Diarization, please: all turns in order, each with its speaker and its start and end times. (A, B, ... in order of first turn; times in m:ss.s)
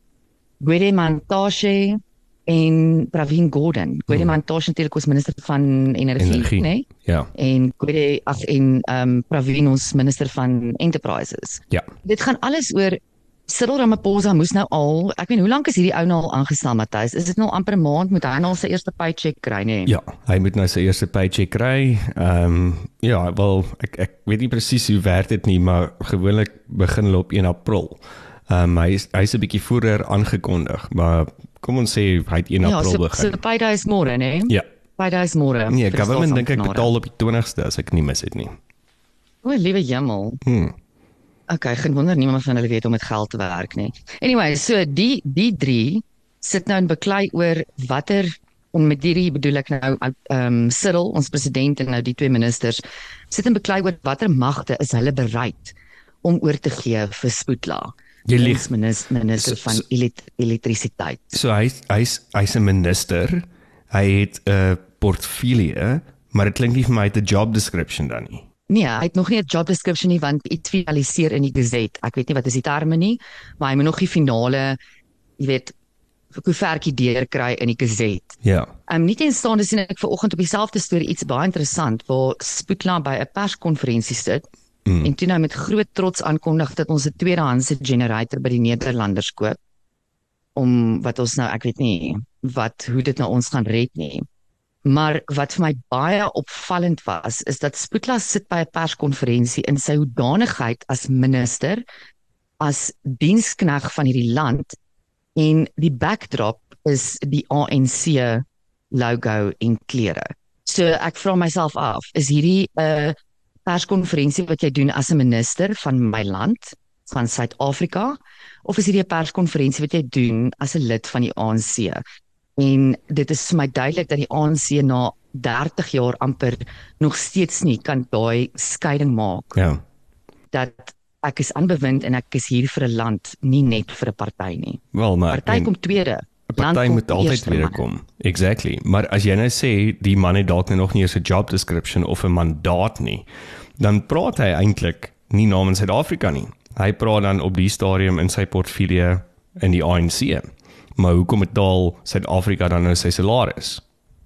0:00.6-0:19.9 A
0:06.2-0:07.3 B
0:19.9-0:33.4 B
0:32.6-0:36.9 A
0:35.7-0:38.6 B
0:39.4-0:40.4 A
0:40.4-0:40.7 B
0:41.5-1:01.4 A
0:58.2-0:58.7 B
0:59.4-0:59.8 B
1:01.3-1:08.4 B
1:08.7-1:14.8 A
1:15.4-1:15.7 A
1:16.3-1:24.4 A
1:18.4-1:18.7 B
1:24.8-1:25.1 B
1:25.0-1:29.6 A
1:30.6-1:34.2 A
1:34.8-1:41.8 A
1:42.6-1:44.8 A
1:45.4-1:53.1 A
1:53.6-2:02.0 A
2:02.6-2:09.6 A
2:09.5-2:09.8 B
2:10.5-2:17.8 A
2:14.9-2:15.7 B
2:16.5-2:23.3 B
2:23.8-2:33.8 B